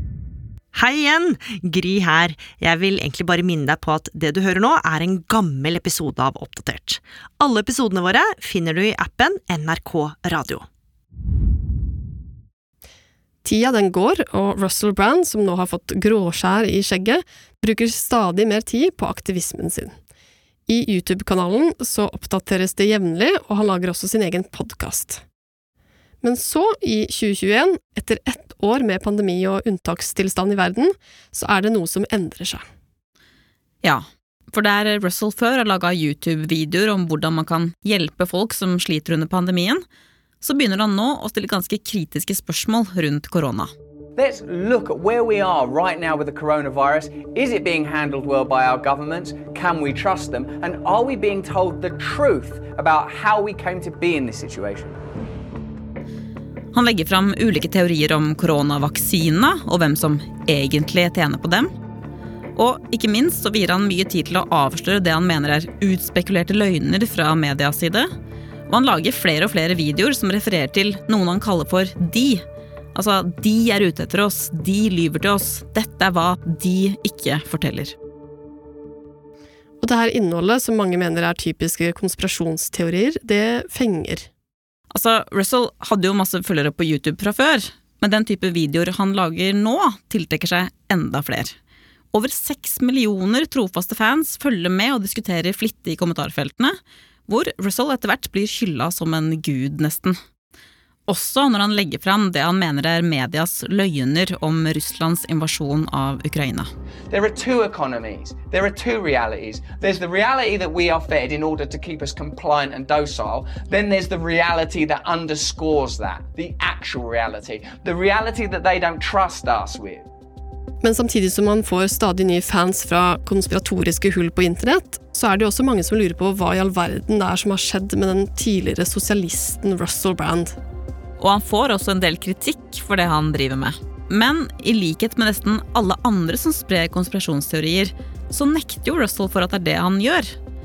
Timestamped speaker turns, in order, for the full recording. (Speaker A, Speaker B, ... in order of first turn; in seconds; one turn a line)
Speaker A: 0.7-10.6
Speaker B: 13.4-19.9
Speaker B: 20.7-25.2
Speaker B: 26.2-32.6
Speaker C: 33.8-39.8
Speaker C: 40.4-43.7
Speaker D: 44.2-55.0
Speaker C: 56.7-61.7
Speaker C: 62.5-68.1
Speaker C: 68.7-72.4
Speaker C: 72.9-77.9
Speaker B: 79.8-84.3
Speaker C: 84.9-91.5
Speaker C: 92.1-96.8
Speaker C: 97.3-100.2
Speaker C: 101.1-106.7
Speaker D: 107.1-120.0
Speaker B: 120.8-130.6
Speaker C: 131.2-140.3